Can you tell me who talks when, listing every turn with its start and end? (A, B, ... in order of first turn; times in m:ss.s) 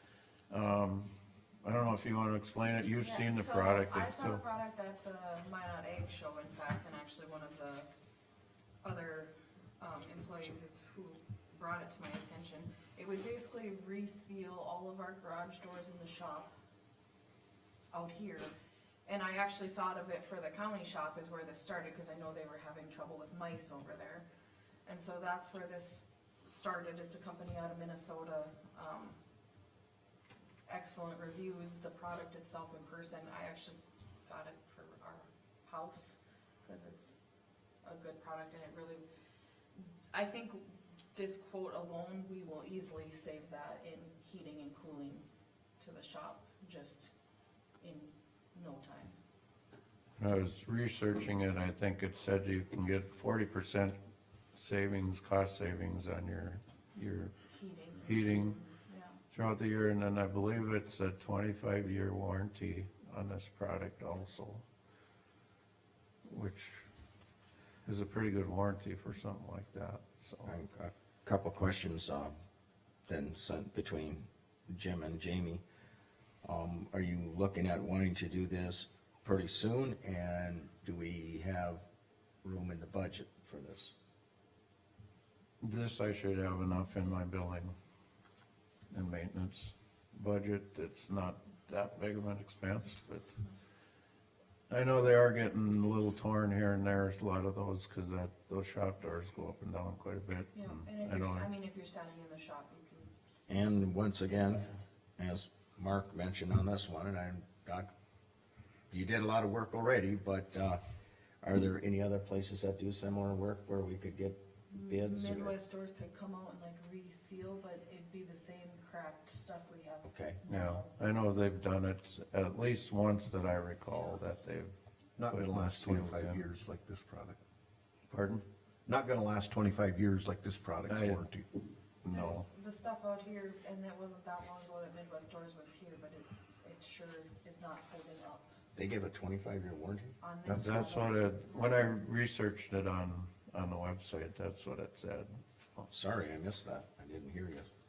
0:00.5-0:04.4 A
0:03.0-0:07.9 B
0:08.8-0:16.5 B
0:17.9-0:18.5 B
0:19.0-0:24.3 B
0:24.8-0:29.2 B
0:30.6-0:37.2 B
0:37.8-0:39.0 B
0:40.1-0:45.2 B
0:45.8-0:47.1 B
0:47.8-0:49.2 B
0:50.2-0:54.0 A
0:54.5-0:57.3 A
0:57.5-0:59.2 B
0:58.0-0:58.6 A
0:59.3-1:04.6 A
1:06.2-1:06.9 A
1:07.8-1:10.5 A
1:10.4-1:12.3 C
1:13.1-1:15.6 C
1:16.4-1:21.8 C
1:22.4-1:23.9 C
1:25.6-1:27.7 A
1:28.9-1:33.4 A
1:34.7-1:41.5 A
1:40.5-1:43.7 B
1:43.5-1:47.9 C
1:44.2-1:44.8 B
1:48.9-1:50.8 C
1:51.4-1:55.6 C
1:54.7-2:00.9 B
2:00.0-2:00.4 C
2:00.4-2:04.7 A
2:05.2-2:07.4 D
2:05.2-2:06.4 A
2:08.1-2:08.4 A
2:08.9-2:11.4 D
2:10.9-2:11.3 A
2:12.0-2:12.4 A
2:12.1-2:18.5 B
2:18.7-2:20.2 C
2:20.2-2:21.9 B
2:20.5-2:25.9 A
2:25.9-2:27.7 C